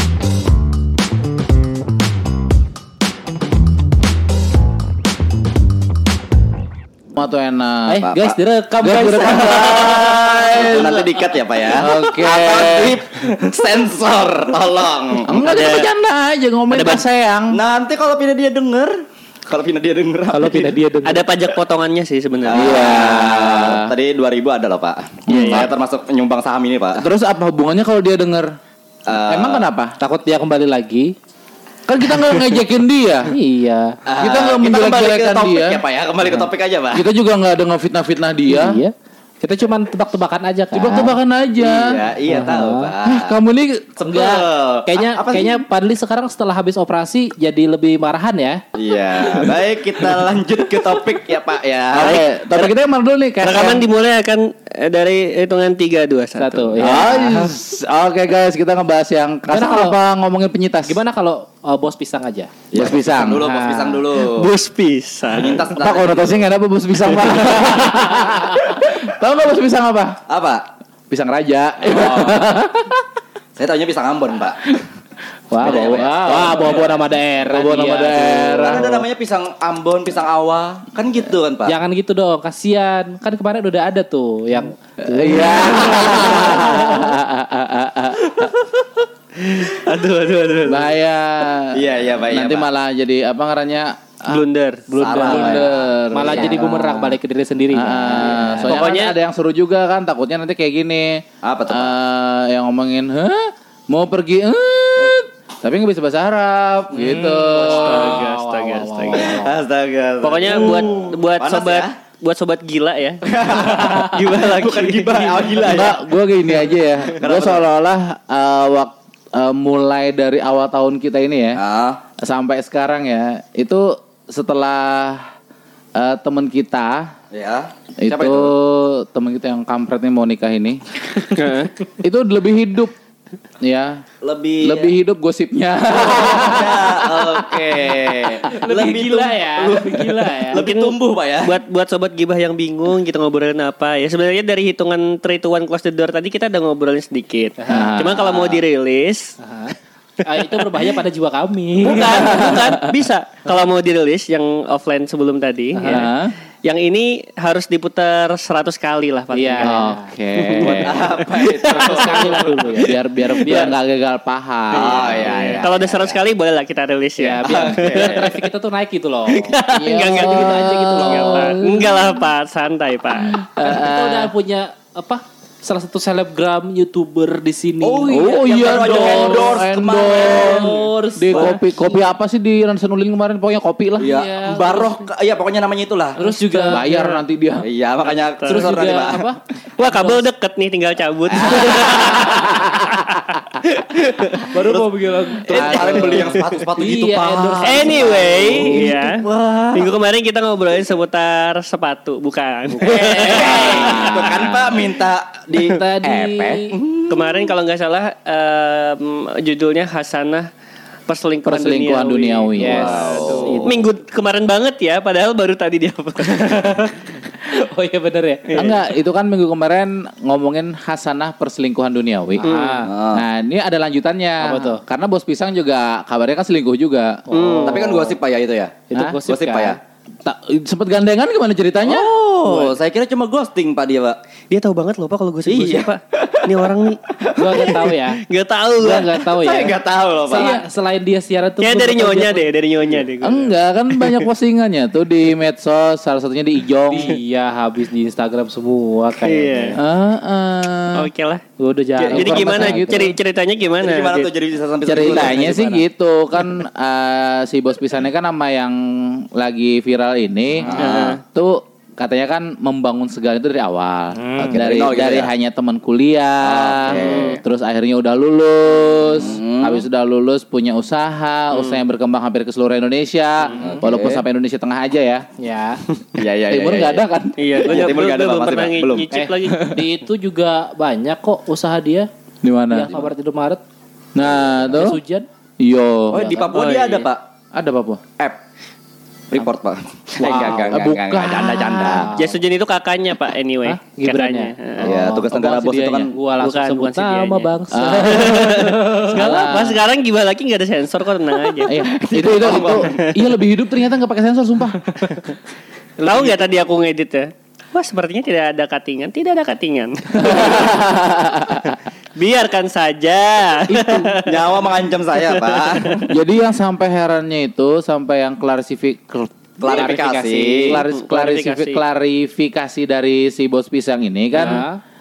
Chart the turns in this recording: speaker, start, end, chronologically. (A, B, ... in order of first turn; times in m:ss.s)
0:07.1-0:08.0 A
0:07.9-0:09.8 B
0:08.0-0:08.4 C
0:08.8-0:11.2 A
0:09.0-0:15.4 C
0:11.7-0:13.0 A
0:15.2-0:17.6 A
0:15.4-0:15.9 D
0:16.7-0:17.0 D
0:17.5-0:20.7 C
0:20.3-0:21.2 B
0:21.0-0:22.8 D
0:22.4-0:27.0 C
0:22.5-0:23.9 A
0:25.3-0:25.7 D
0:25.3-0:25.7 A
0:26.9-0:28.5 A
0:29.0-0:29.6 C
0:29.3-0:29.9 A
0:30.0-0:31.1 B
0:31.9-0:33.3 A
0:33.3-0:34.0 B
0:34.0-0:37.1 C
0:34.2-0:35.8 A
0:36.9-0:38.8 A
0:38.5-0:41.2 B
0:40.7-0:42.0 A
0:41.6-0:43.4 C
0:42.3-0:42.9 B
0:43.0-0:44.4 A
0:44.0-0:45.6 C
0:44.8-0:48.6 B
0:48.7-0:52.6 C
0:50.0-0:50.3 A
0:51.9-0:53.9 A
0:53.4-0:56.7 D
0:56.4-0:57.5 B
0:56.8-1:01.0 A
0:59.5-1:00.0 B
1:00.8-1:02.5 B
1:02.7-1:04.5 C
1:02.7-1:04.0 A
1:03.4-1:03.9 B
1:04.2-1:05.6 D
1:05.3-1:06.3 C
1:05.7-1:10.2 A
1:10.3-1:10.7 C
1:11.1-1:13.0 A
1:11.9-1:12.3 C
1:13.6-1:14.8 C
1:15.5-1:18.8 B
1:15.6-1:16.6 C
1:15.6-1:19.0 A
1:18.6-1:21.8 C
1:21.7-1:27.1 B
1:25.0-1:28.5 A
1:29.4-1:30.9 D
1:30.6-1:34.4 A
1:31.7-1:32.7 C
1:34.3-1:34.9 D
1:34.9-1:35.8 C
1:35.0-1:38.8 B
1:35.0-1:37.2 A
1:37.7-1:48.2 A
1:38.6-1:39.2 D
1:41.4-1:41.9 C
1:46.9-1:47.4 C
1:47.3-1:49.6 B
1:47.7-1:49.4 D
1:49.1-1:51.9 C
1:50.2-1:53.6 D
1:53.2-1:56.0 C
1:53.6-1:54.3 A
1:54.7-1:55.5 D
1:55.6-2:01.6 A
1:57.0-1:57.6 C
2:01.5-2:02.0 C
2:02.2-2:05.3 A
2:06.0-2:07.1 A
2:07.3-2:08.5 C
2:08.0-2:10.8 A
2:11.2-2:11.7 D
2:12.0-2:12.9 A
2:13.6-2:14.0 A
2:14.2-2:14.9 C
2:14.6-2:18.4 A
2:15.9-2:21.6 C
2:18.5-2:20.6 B
2:20.6-2:29.3 D
2:27.6-2:27.9 B
2:27.7-2:28.4 A
2:28.3-2:28.6 C
2:29.4-2:32.6 B
2:30.5-2:30.9 D
2:31.8-2:36.1 D
2:32.1-2:32.9 A
2:35.8-2:36.1 B
2:35.8-2:36.3 A
2:36.6-2:42.5 D
2:39.3-2:40.1 B
2:39.6-2:41.2 A
2:40.6-2:42.8 C
2:41.6-2:43.7 B
2:42.8-2:45.5 A
2:43.2-2:43.7 D
2:44.7-2:48.4 D
2:44.7-2:46.2 C
2:47.2-2:52.1 B
2:47.4-2:48.4 C
2:49.3-2:53.4 D
2:49.7-2:51.8 A
2:53.4-2:54.3 A
2:53.6-3:02.0 B
2:57.8-3:01.6 C
2:58.1-3:04.2 A
3:04.0-3:06.2 C
3:04.0-3:05.0 B
3:06.2-3:07.2 B
3:06.2-3:07.7 A
3:07.6-3:09.3 C
3:08.4-3:08.9 D
3:08.5-3:10.2 B
3:09.8-3:13.2 D
3:11.3-3:12.8 C
3:11.9-3:12.8 A
3:13.6-3:14.9 C
3:14.5-3:19.1 B
3:15.4-3:19.9 C
3:15.5-3:16.4 A
3:17.6-3:24.4 D
3:22.7-3:24.1 B
3:22.8-3:27.5 C
3:23.5-3:24.9 A
3:25.5-3:26.7 B
3:27.1-3:30.5 D
3:31.1-3:37.0 D
3:31.4-3:33.1 A
3:32.6-3:33.8 B
3:32.7-3:33.8 C
3:37.5-3:38.6 B
3:38.5-3:38.8 D
3:38.5-3:42.4 A
3:42.4-3:42.9 B
3:42.4-3:42.8 D
3:42.8-3:43.2 C
3:43.1-3:47.3 A
3:44.4-3:44.8 B
3:47.3-3:48.1 B
3:47.3-3:47.9 D
3:47.6-3:49.8 C
3:48.9-3:49.8 B
3:50.2-3:52.1 A
3:51.8-3:54.2 C
3:52.5-3:52.7 B
3:54.5-3:57.0 D
3:55.4-3:57.8 C
3:57.4-3:58.2 B
3:57.5-3:59.3 D
3:58.8-3:59.8 B
3:59.4-4:00.5 C
4:00.3-4:02.5 B
4:01.6-4:04.3 D
4:03.2-4:07.2 A
4:06.9-4:09.8 B
4:09.2-4:09.8 D
4:09.8-4:11.1 A
4:10.9-4:11.4 D
4:11.6-4:13.0 B
4:12.0-4:14.3 D
4:12.1-4:13.2 A
4:13.8-4:15.8 C
4:14.8-4:35.2 A
4:20.6-4:21.2 C
4:20.8-4:21.2 D
4:24.1-4:24.6 B
4:24.4-4:25.3 C
4:26.4-4:27.4 C
4:27.0-4:27.4 D
4:29.0-4:29.8 C
4:31.5-4:31.8 D
4:33.4-4:33.8 D
4:33.6-4:34.2 C
4:35.4-4:35.8 B
4:36.1-4:37.0 C
4:36.5-4:37.8 A
4:37.4-4:39.8 D
4:37.6-4:39.1 C
4:39.1-4:42.1 B
4:39.4-4:39.8 A
4:42.4-4:43.0 A
4:42.7-4:43.6 B
4:44.1-4:45.0 A
4:44.6-4:45.3 B
4:45.6-4:46.3 A
4:46.1-4:47.2 C
4:46.3-4:47.1 D
4:47.5-4:48.0 A
4:49.3-4:52.1 C
4:50.2-4:50.8 B
4:50.7-4:52.1 A
4:52.0-4:52.4 B
4:52.2-4:54.9 D
4:53.6-4:55.2 B
4:54.8-4:56.1 C
4:54.8-4:56.1 A
4:56.1-4:59.5 B
4:56.4-5:01.8 D
4:57.7-4:59.8 A
5:01.6-5:05.2 A
5:01.8-5:03.1 C
5:02.6-5:03.0 D
5:06.0-5:10.8 D
5:06.1-5:06.3 C
5:10.1-5:11.8 A
5:12.2-5:14.6 D
5:13.7-5:14.1 A
5:14.1-5:16.1 C
5:15.2-5:15.9 D
5:16.1-5:20.0 A
5:19.6-5:20.8 C
5:19.6-5:20.8 B
5:20.6-5:24.7 A
5:20.9-5:21.8 D
5:24.3-5:24.8 B